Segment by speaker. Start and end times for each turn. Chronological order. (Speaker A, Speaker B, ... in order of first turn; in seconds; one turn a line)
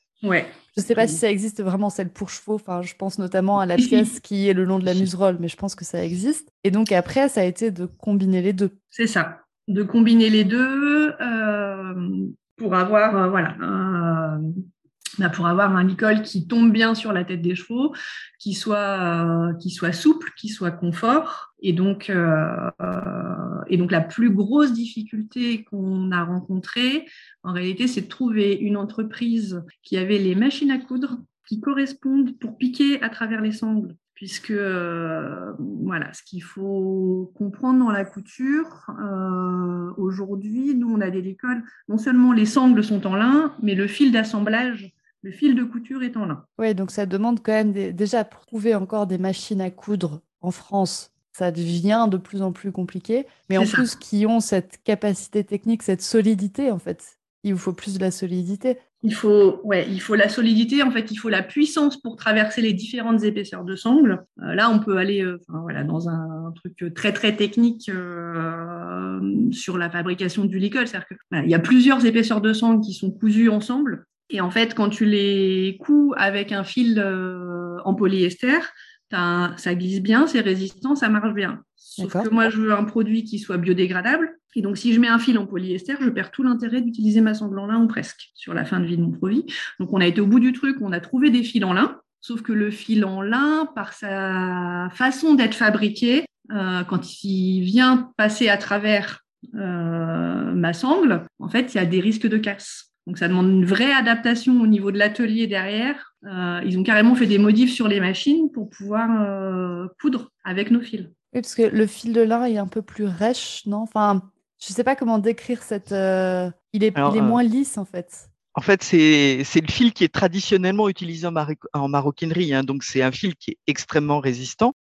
Speaker A: 0.2-1.2
Speaker B: 0.7-8.7
Speaker A: 3.8-4.1
Speaker A: 8.9-14.4
Speaker A: 15.2-46.4
Speaker B: 46.6-58.8
Speaker A: 53.5-53.9
Speaker A: 59.0-111.1
Speaker B: 82.0-82.3
Speaker B: 111.3-118.3
Speaker C: 117.0-117.4
Speaker C: 118.5-124.7